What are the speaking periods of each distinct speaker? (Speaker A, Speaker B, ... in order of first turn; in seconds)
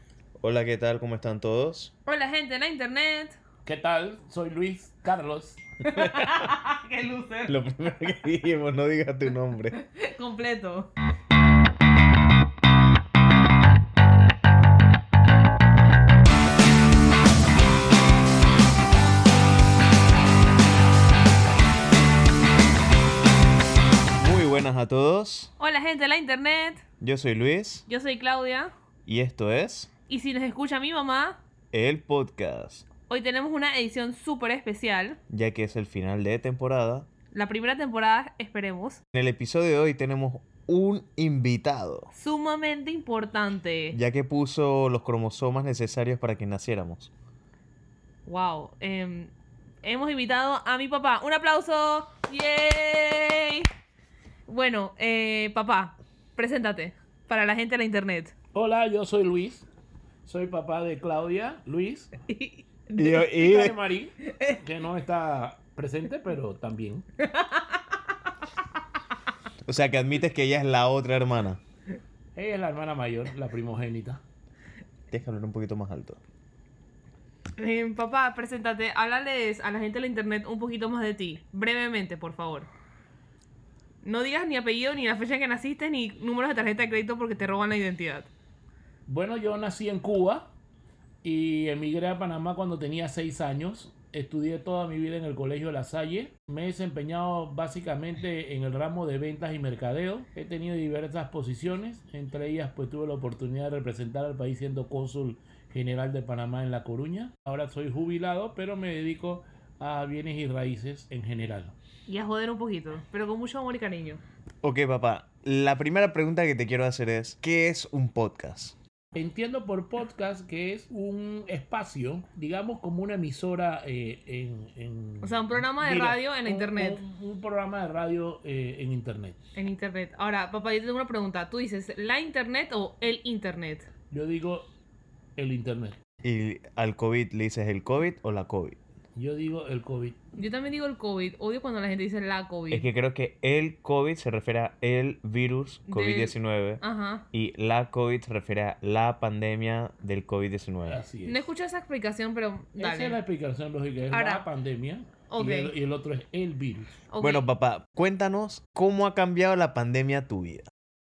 Speaker A: 0.4-1.9, 6.0-6.5, 7.5-9.8, 24.2-25.5, 27.0-27.8, 29.1-29.9, 31.7-32.8, 35.3-37.1, 39.1-42.1, 43.9-47.1, 63.0-63.7, 69.7-71.6, 75.1-76.2, 114.6-118.8, 136.2-138.8, 142.7-151.0, 157.2-160.7
Speaker B: 2.0-3.4, 5.8-7.6, 9.7-10.9, 25.6-26.8, 27.9-28.7, 30.1-31.4, 33.1-35.2, 37.3-39.0, 42.1-44.0, 48.2-49.3, 49.8-53.6, 54.5-58.3, 62.3-63.5, 64.2-64.6, 67.2-68.0, 77.6-82.7, 84.0-88.3, 112.1-114.2, 125.2-127.0, 129.5-133.9, 140.3-142.9, 145.9-147.2, 151.2-153.2, 154.1-154.4, 155.3-155.7, 157.1-157.4
Speaker C: 3.6-5.6, 58.5-59.6, 60.2-62.1, 63.3-67.1, 72.3-74.2, 89.1-90.5, 91.2-111.7, 119.1-129.4, 134.1-134.7, 135.4-136.0, 139.2-140.3, 150.8-151.4, 152.8-157.0